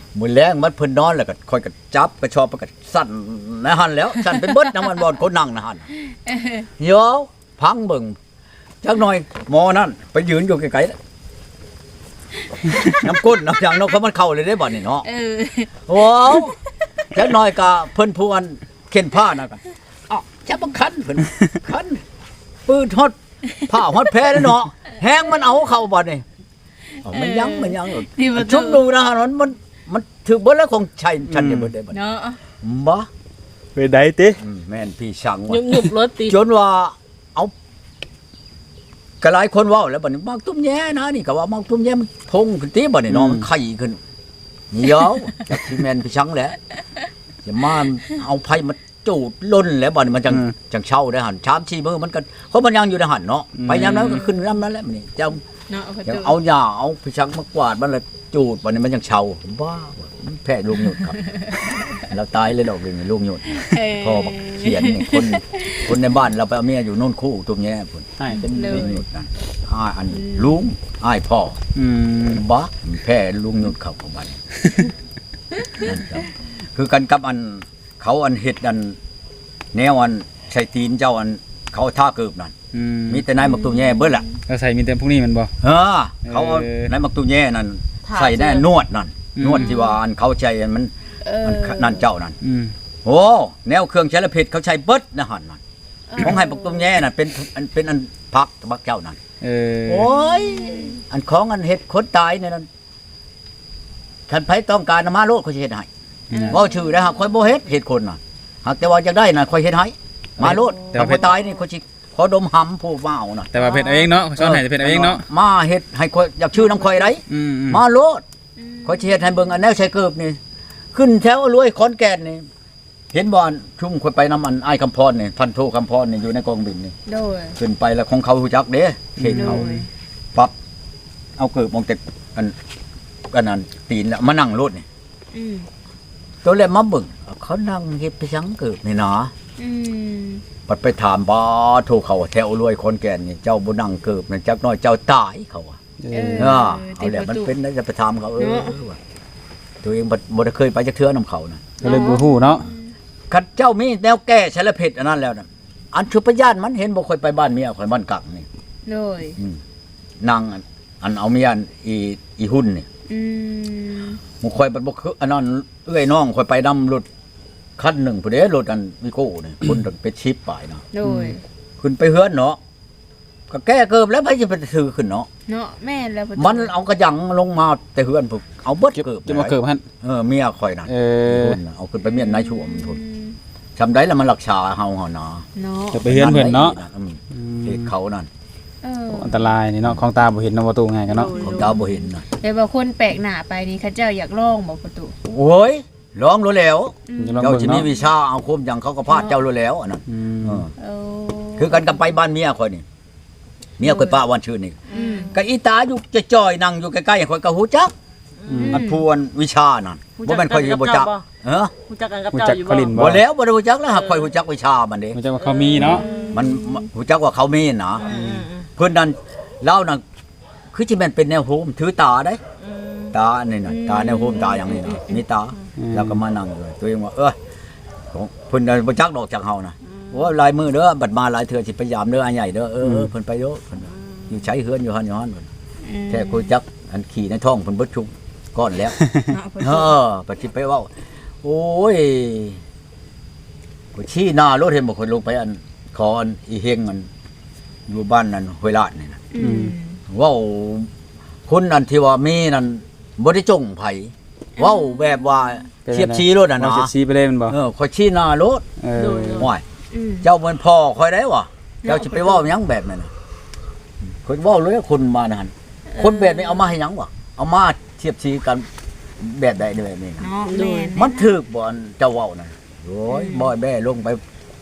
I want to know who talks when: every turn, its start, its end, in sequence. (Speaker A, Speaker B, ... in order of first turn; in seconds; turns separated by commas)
Speaker A: 0.1-5.8, Speaker B: 6.2-6.7, Speaker A: 6.8-8.2, Speaker A: 8.8-10.9, Speaker A: 13.0-15.1, Speaker B: 15.0-16.5, Speaker A: 15.8-16.5, Speaker A: 17.1-22.0, Speaker A: 22.6-23.1, Speaker A: 23.6-26.2, Speaker B: 27.0-28.9, Speaker A: 27.0-32.0, Speaker C: 31.2-31.7, Speaker B: 31.9-32.4, Speaker A: 32.6-33.1, Speaker C: 33.7-34.4, Speaker A: 34.4-37.5, Speaker D: 35.5-36.4, Speaker A: 39.2-44.0, Speaker C: 43.1-43.5, Speaker A: 44.7-46.6, Speaker A: 47.4-55.4, Speaker C: 53.6-54.2, Speaker B: 55.7-56.4, Speaker A: 56.0-61.2, Speaker B: 61.2-61.8, Speaker A: 62.0-71.6, Speaker B: 63.6-66.0, Speaker C: 68.2-68.9, Speaker B: 68.2-69.0, Speaker B: 70.1-70.6, Speaker C: 71.7-72.4, Speaker A: 72.3-74.4, Speaker A: 75.8-79.0, Speaker A: 79.7-82.5, Speaker C: 82.7-83.3, Speaker A: 83.1-84.2, Speaker B: 83.4-84.3, Speaker C: 84.5-85.5, Speaker A: 85.6-90.9, Speaker C: 86.2-86.9, Speaker D: 88.1-88.7, Speaker C: 89.3-89.7, Speaker B: 89.7-89.9, Speaker B: 91.2-92.1, Speaker A: 91.4-92.3, Speaker C: 92.4-92.7, Speaker A: 93.0-95.6, Speaker B: 96.1-96.9, Speaker A: 96.2-99.2, Speaker C: 99.4-100.1, Speaker A: 99.8-102.7, Speaker B: 100.0-101.0, Speaker A: 104.3-105.9, Speaker C: 106.3-106.6, Speaker B: 106.3-106.9, Speaker A: 106.5-113.5, Speaker C: 110.4-111.3, Speaker C: 113.5-115.2, Speaker B: 113.6-114.2, Speaker A: 114.4-118.2, Speaker C: 117.2-117.8, Speaker B: 118.6-119.7, Speaker A: 118.8-120.4, Speaker A: 120.9-122.4, Speaker A: 123.1-126.9, Speaker B: 127.1-127.6, Speaker A: 127.6-129.7, Speaker C: 129.2-129.8, Speaker B: 129.3-129.9, Speaker A: 131.4-132.5, Speaker A: 133.3-134.8, Speaker B: 135.3-135.7, Speaker A: 136.4-139.3, Speaker B: 139.6-140.4, Speaker A: 140.7-145.8, Speaker C: 146.0-146.6, Speaker B: 146.1-147.5, Speaker A: 146.3-149.0, Speaker B: 148.4-148.8, Speaker A: 149.8-151.7, Speaker C: 151.8-152.7, Speaker B: 151.8-152.9, Speaker A: 153.3-158.4, Speaker B: 158.8-159.4, Speaker A: 160.2-162.8, Speaker B: 163.1-164.2, Speaker A: 164.4-167.1, Speaker A: 167.8-170.8, Speaker B: 170.9-171.4, Speaker C: 171.0-171.3, Speaker A: 171.8-172.6, Speaker A: 173.5-175.3, Speaker B: 175.5-176.7, Speaker A: 176.3-183.0, Speaker C: 178.9-179.8, Speaker C: 180.9-181.6, Speaker B: 182.1-183.4, Speaker A: 183.8-185.4, Speaker B: 185.6-186.1, Speaker C: 185.9-186.8, Speaker A: 186.0-188.3, Speaker C: 187.3-187.9, Speaker B: 188.8-189.6, Speaker C: 189.1-191.3, Speaker D: 191.1-191.6, Speaker B: 191.3-195.2, Speaker A: 191.4-192.2, Speaker A: 195.3-200.7, Speaker B: 197.1-197.4, Speaker C: 197.2-197.8, Speaker B: 199.1-199.4, Speaker C: 200.1-200.6, Speaker B: 200.8-201.9, Speaker A: 201.6-202.8, Speaker A: 203.8-204.8, Speaker B: 203.8-204.2, Speaker B: 204.9-205.3, Speaker D: 204.9-205.3, Speaker A: 205.3-207.9, Speaker C: 208.4-208.8, Speaker B: 208.6-209.0, Speaker A: 208.7-211.7, Speaker D: 210.2-211.2, Speaker D: 211.9-213.0, Speaker C: 212.3-213.2, Speaker A: 212.9-215.2, Speaker D: 213.9-214.3, Speaker C: 215.1-216.1, Speaker D: 215.3-216.3, Speaker A: 215.8-218.1, Speaker B: 215.9-216.8, Speaker D: 218.0-218.7, Speaker C: 218.1-218.4, Speaker A: 218.8-220.0, Speaker A: 220.7-222.4, Speaker D: 222.6-223.1, Speaker A: 223.1-227.3, Speaker B: 223.6-225.2, Speaker C: 225.8-226.2, Speaker A: 228.1-235.5, Speaker C: 232.8-233.1, Speaker B: 235.8-236.5, Speaker A: 236.1-239.0, Speaker B: 239.3-239.9, Speaker A: 239.6-240.9, Speaker A: 241.4-242.6, Speaker A: 243.9-247.1, Speaker A: 247.9-249.2, Speaker B: 249.3-250.0, Speaker C: 249.4-249.7, Speaker A: 250.1-250.9, Speaker A: 251.5-256.9, Speaker B: 254.6-255.7, Speaker C: 255.8-257.6, Speaker A: 257.5-258.6, Speaker C: 258.8-259.5, Speaker D: 258.9-259.5, Speaker A: 259.4-259.6, Speaker B: 259.9-260.3, Speaker A: 260.2-263.1, Speaker B: 261.8-262.4, Speaker A: 264.2-268.7, Speaker B: 265.9-266.6, Speaker A: 269.2-270.3, Speaker B: 270.2-271.3, Speaker D: 270.4-271.0, Speaker A: 270.9-274.2, Speaker B: 273.1-273.5